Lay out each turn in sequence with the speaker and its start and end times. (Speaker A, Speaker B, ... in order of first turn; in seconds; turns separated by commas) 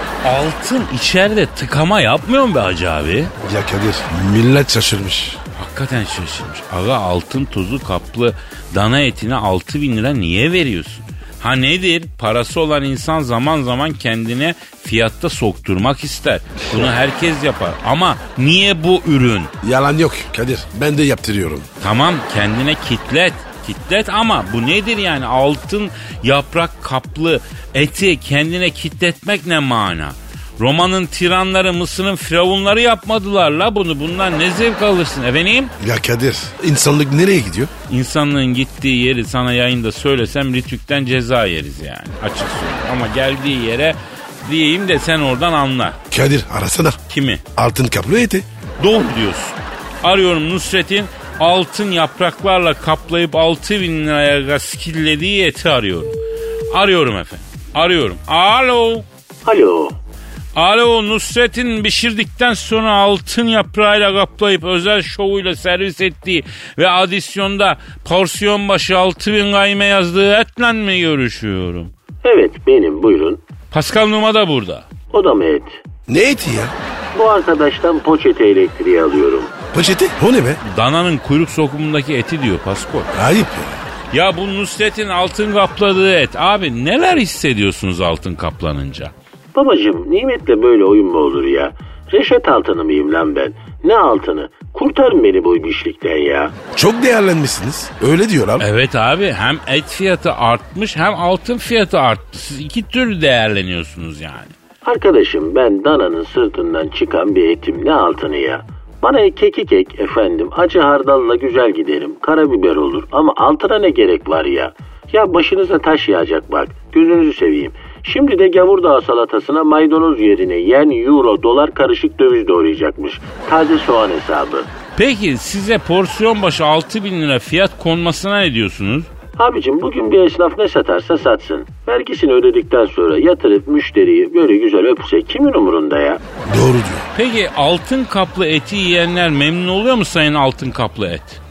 Speaker A: 0.2-3.3, Speaker B: 3.4-5.4, Speaker A: 5.5-19.5, Speaker B: 19.6-21.7, Speaker A: 21.8-35.7, Speaker B: 35.8-37.7, Speaker A: 37.9-46.0, Speaker B: 46.1-47.0, Speaker A: 47.1-47.4, Speaker B: 47.5-48.5, Speaker A: 48.8-56.2, Speaker A: 56.7-59.0, Speaker C: 59.4-60.0, Speaker A: 60.5-71.9, Speaker C: 72.2-73.4, Speaker A: 73.7-74.9, Speaker C: 75.1-75.8, Speaker B: 76.1-76.7, Speaker C: 77.1-79.6, Speaker B: 79.7-80.6, Speaker A: 80.6-83.1, Speaker B: 83.1-83.8, Speaker A: 84.1-89.1, Speaker C: 89.5-96.5, Speaker B: 96.7-98.7, Speaker A: 98.6-104.5, Speaker C: 104.8-124.7, Speaker A: 125.0-129.1, Speaker C: 129.3-136.2, Speaker B: 136.4-137.1, Speaker A: 137.1-141.4